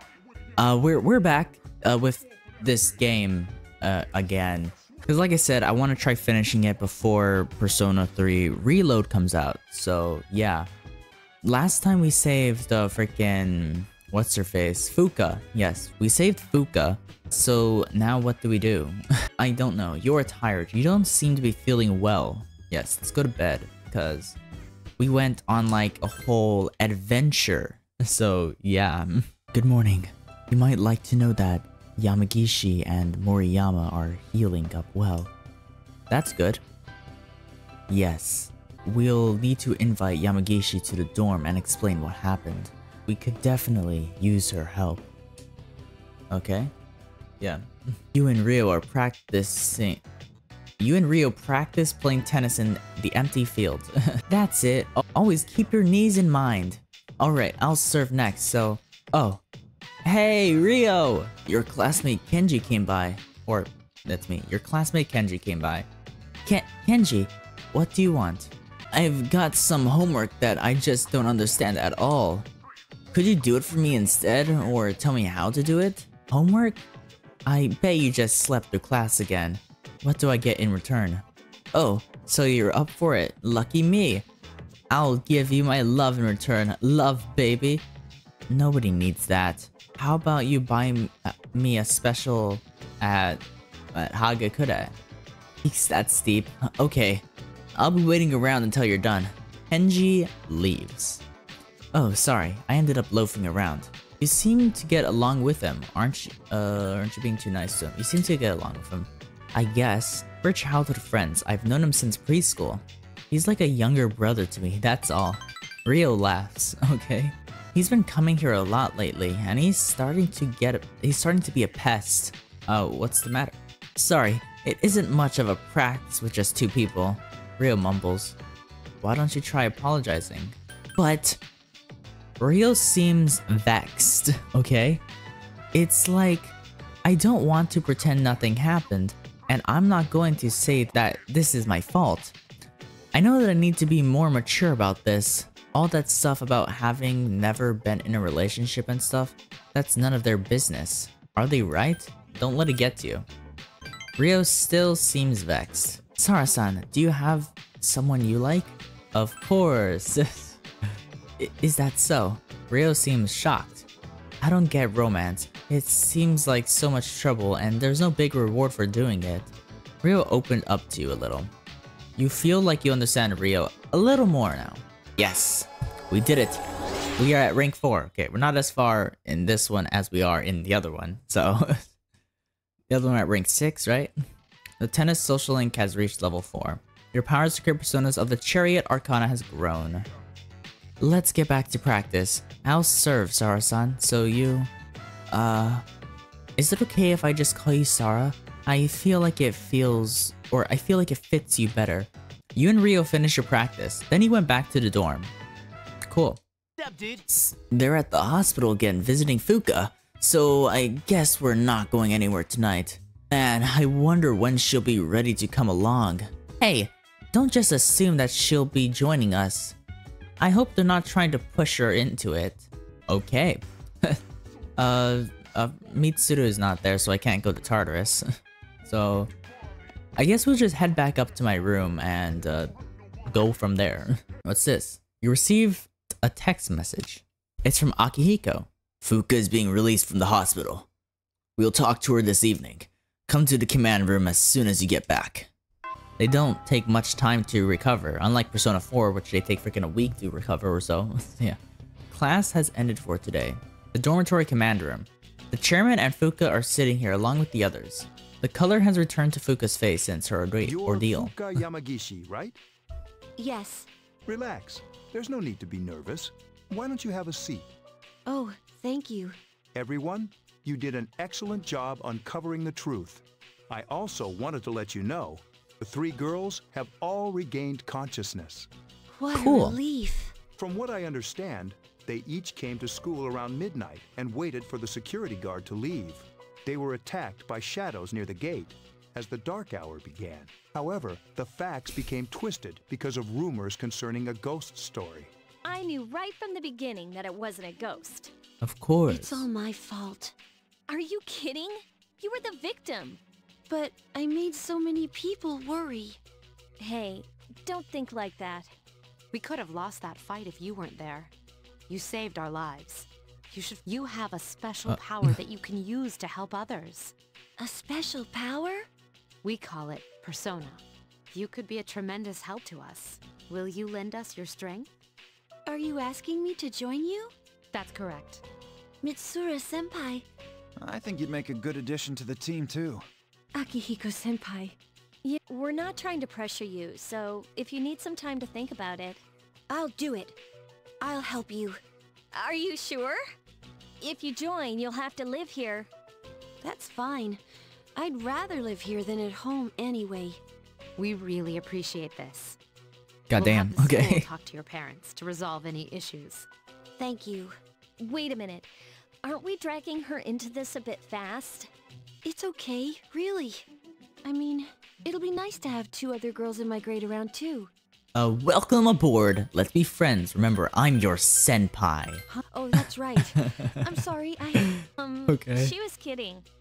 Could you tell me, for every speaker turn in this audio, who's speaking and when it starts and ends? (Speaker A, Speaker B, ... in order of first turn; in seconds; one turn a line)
Speaker A: 0.6-10.7
Speaker A: 11.4-24.4
Speaker A: 25.0-35.3
Speaker A: 36.1-36.6
Speaker A: 37.9-45.0
Speaker A: 46.3-46.7
Speaker A: 47.4-50.0
Speaker A: 50.8-59.4
Speaker A: 60.0-65.9
Speaker A: 66.4-72.5
Speaker A: 73.1-76.8
Speaker A: 77.5-84.2
Speaker A: 84.9-87.8
Speaker A: 88.5-93.4
Speaker A: 93.9-94.9
Speaker A: 95.6-97.2
Speaker A: 97.8-101.2
Speaker A: 101.9-128.3
Speaker A: 129.0-131.4
Speaker A: 132.4-135.0
Speaker A: 135.7-142.3
Speaker A: 143.1-153.2
Speaker A: 154.2-160.6
Speaker A: 161.4-163.9
Speaker A: 164.4-169.5
Speaker A: 170.0-171.5
Speaker A: 172.2-176.6
Speaker A: 177.2-181.9
Speaker A: 182.9-184.1
Speaker A: 184.8-190.1
Speaker A: 191.0-194.7
Speaker A: 195.3-195.8
Speaker A: 196.6-205.3
Speaker A: 206.1-206.4
Speaker B: 206.8-207.2
Speaker A: 207.3-219.8
Speaker A: 220.4-224.2
Speaker A: 224.8-228.2
Speaker A: 228.8-229.3
Speaker A: 230.2-232.7
Speaker A: 233.2-240.9
Speaker A: 241.6-245.5
Speaker A: 246.2-251.6
Speaker A: 252.1-261.4
Speaker C: 260.6-262.6
Speaker D: 263.4-263.9
Speaker C: 264.2-267.7
Speaker D: 268.2-269.4
Speaker C: 269.7-278.7
Speaker D: 279.1-280.3
Speaker A: 279.3-279.8
Speaker C: 280.6-295.3
Speaker E: 295.6-298.3
Speaker A: 298.6-299.4
Speaker D: 299.1-300.3
Speaker E: 300.9-303.2
Speaker D: 303.7-306.2
Speaker E: 306.8-308.7
Speaker B: 309.3-311.3
Speaker B: 311.9-317.1
Speaker A: 314.9-315.3
Speaker D: 317.6-318.9
Speaker B: 319.4-324.9
Speaker D: 325.6-327.3
Speaker B: 327.7-328.4
Speaker D: 329.0-330.2
Speaker F: 330.8-333.0
Speaker D: 333.5-334.8
Speaker E: 335.2-339.2
Speaker D: 339.7-340.4
Speaker D: 341.0-341.8
Speaker D: 342.3-343.2
Speaker E: 344.0-345.9
Speaker D: 346.6-347.4
Speaker D: 347.9-350.4
Speaker B: 351.0-352.6
Speaker A: 353.3-354.3
Speaker B: 353.3-356.5
Speaker D: 357.0-357.6
Speaker E: 358.0-358.7
Speaker E: 359.2-361.7
Speaker D: 362.2-363.6
Speaker D: 364.2-367.7
Speaker A: 368.1-372.2
Speaker D: 372.3-374.8
Speaker A: 372.8-374.0
Speaker A: 374.6-375.7
Speaker E: 375.0-376.4